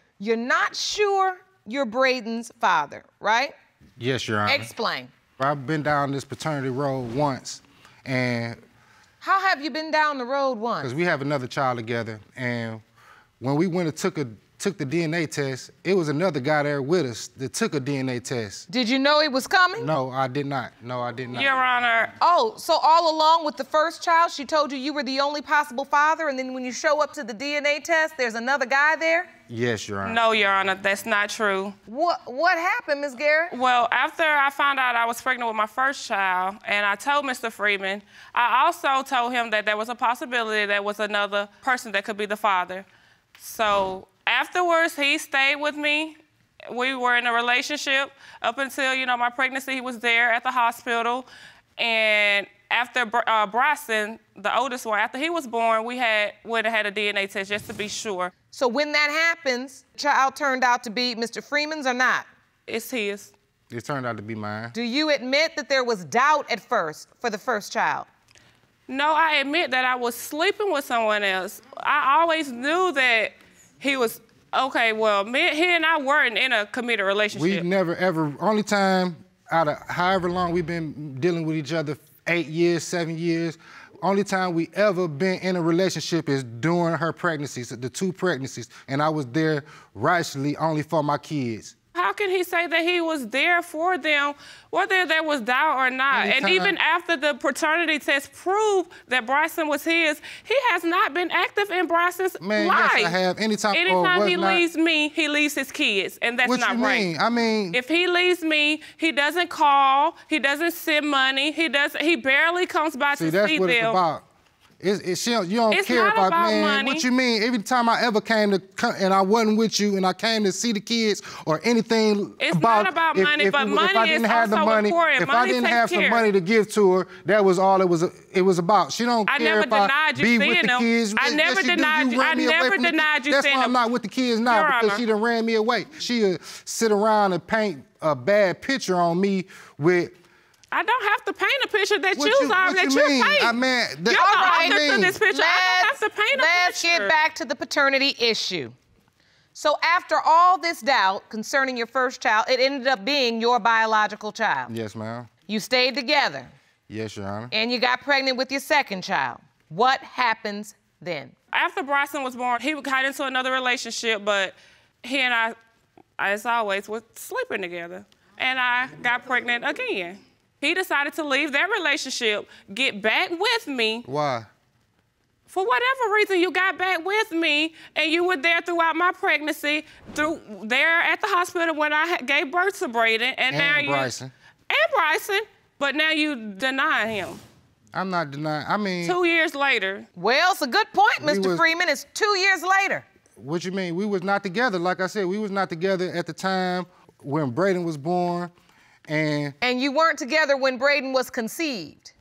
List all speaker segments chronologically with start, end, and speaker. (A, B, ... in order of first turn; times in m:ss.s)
0:00.2-0:03.5 A
0:04.0-0:04.7 B
0:04.4-0:05.1 A
0:05.4-0:08.6 B
0:09.2-0:10.9 A
0:10.8-0:12.8 B
0:13.4-0:18.7 B
0:18.7-0:19.9 A
0:19.8-0:21.5 B
0:21.3-0:22.1 C
0:22.2-0:29.3 A
0:29.5-0:30.2 B
0:30.0-0:31.7 C
0:31.9-0:33.5 A
0:33.5-0:42.8 C
0:43.4-0:58.3 C
0:58.5-1:02.3 A
1:02.7-1:03.3 C
1:03.7-1:04.7 B
1:04.7-1:08.1 A
1:08.9-1:17.6 C
1:17.3-1:31.7 B
1:31.9-1:43.1 C
1:36.1-1:36.7 B
1:42.4-1:44.6 B
1:43.7-1:47.1 C
1:46.4-1:47.8 B
1:47.7-1:54.0 C
1:53.2-1:54.2 B
1:54.8-2:20.1 B
1:55.7-1:57.0 C
2:02.4-2:06.2 C
2:09.3-2:13.7 C
2:14.4-2:15.0 C
2:20.7-2:23.5 C
2:22.2-2:25.2 B
2:24.0-2:27.1 C
2:24.1-2:28.8 A
2:29.5-2:34.7 A
2:34.7-2:35.3 B
2:35.5-2:36.5 A
2:36.9-2:37.5 B
2:37.5-2:41.3 A
2:41.5-2:45.6 C
2:46.2-2:54.0 C
2:54.0-2:54.5 B
2:55.5-3:04.2 C
3:03.5-3:04.3 B
3:04.7-3:07.4 C
3:07.9-3:09.2 B
3:09.0-3:10.1 C
3:10.2-3:13.0 A
3:11.2-3:11.6 B
3:13.4-3:18.5 B
3:19.1-3:19.5 B
3:19.6-3:22.1 A